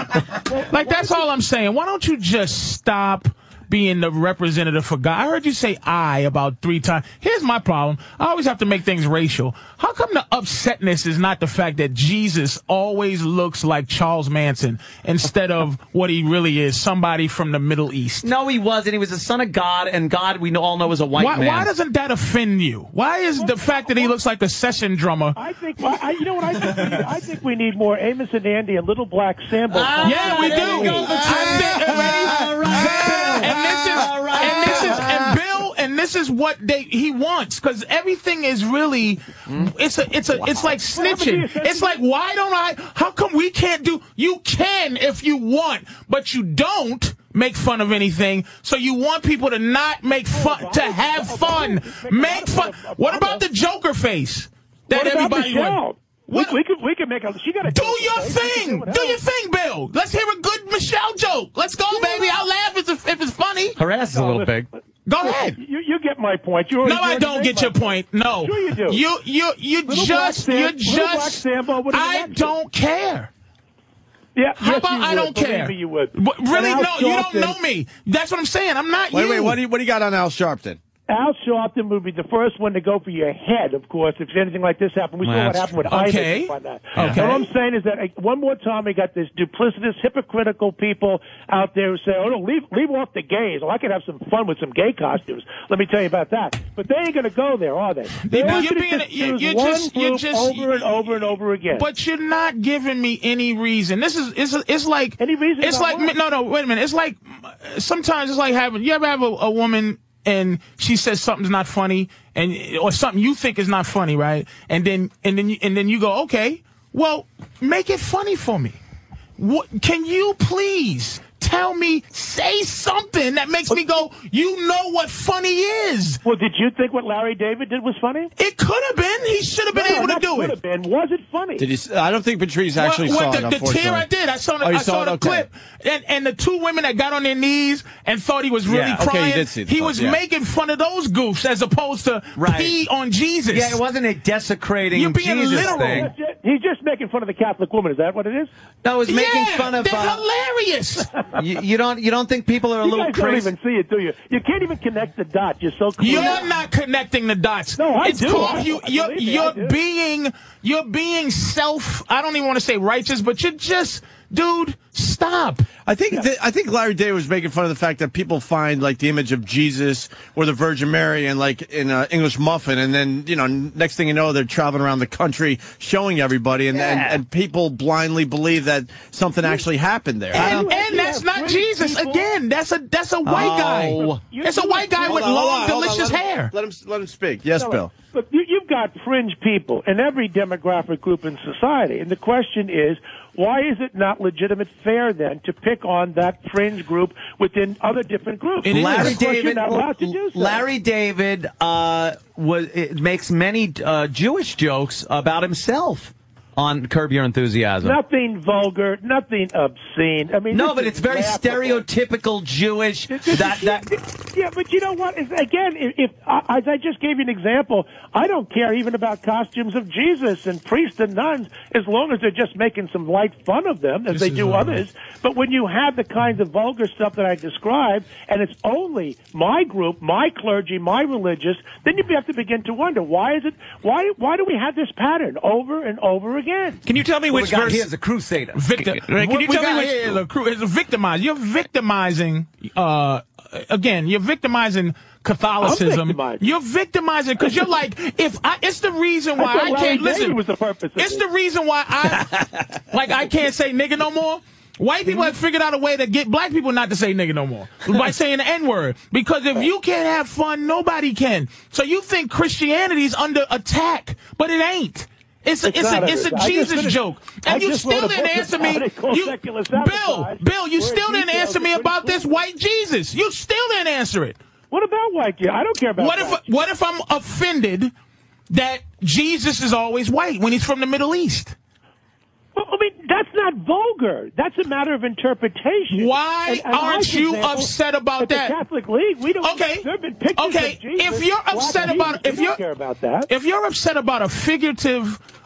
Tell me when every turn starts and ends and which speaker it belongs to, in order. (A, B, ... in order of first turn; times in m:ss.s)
0:00.4-0:01.3 A
0:00.7-0:18.3 B
0:18.2-0:21.7 C
0:21.2-0:25.4 B
0:23.3-0:24.2 A
0:25.4-0:32.2 A
0:29.7-0:35.4 C
0:30.0-0:56.6 B
0:40.8-0:42.0 A
0:50.3-0:53.4 A
0:54.9-0:59.2 A
0:57.7-1:03.8 B
1:01.9-1:02.5 A
1:03.8-1:04.7 C
1:04.1-1:09.0 A
1:05.1-1:05.6 B
1:06.8-1:13.3 B
1:09.9-1:12.5 A
1:14.4-1:17.6 A
1:14.6-1:19.6 B
1:19.1-1:20.8 D
1:21.1-1:41.9 A
1:25.2-1:25.7 C
1:25.9-1:27.5 B
1:38.2-1:58.8 B
1:45.2-1:46.1 A
1:59.4-2:06.2 B
2:06.2-2:08.3 A
2:08.4-2:10.6 B
2:09.7-2:11.7 A
2:11.6-2:14.1 D
2:12.8-2:23.8 B
2:14.6-2:15.5 D
2:18.7-2:19.0 C
2:18.7-2:20.2 D
2:22.4-2:22.8 C
2:23.5-2:26.1 C
2:24.9-2:26.1 B
2:25.5-2:28.5 A
2:28.8-2:30.2 C
2:29.1-2:31.1 B
2:31.4-2:33.5 C
2:32.8-2:36.5 A
2:36.0-2:45.7 B
2:37.8-2:39.8 A
2:45.9-3:00.5 D
2:56.7-2:57.2 C
3:00.3-3:02.3 A
3:00.3-3:06.5 B
3:00.4-3:00.7 C
3:03.3-3:04.2 C
3:04.0-3:05.3 A
3:05.0-3:07.9 D
3:07.6-3:20.6 A
3:18.6-3:19.2 B
3:18.7-3:28.0 C
3:27.8-3:31.8 A
3:30.5-3:33.9 C
3:33.1-3:56.8 A
3:44.1-3:44.8 B
3:56.9-3:57.9 E
3:57.3-3:58.7 C
3:58.6-4:10.4 B
3:58.8-4:00.2 E
4:05.6-4:06.5 A
4:09.4-4:11.2 A
4:11.0-4:12.4 B
4:12.9-4:34.4 B
4:25.6-4:32.4 A
4:34.7-4:36.4 A
4:36.0-4:37.9 B
4:38.5-4:41.6 B
4:42.6-4:53.3 A
4:45.9-4:48.6 B
4:49.4-4:52.6 B
4:53.3-4:55.2 B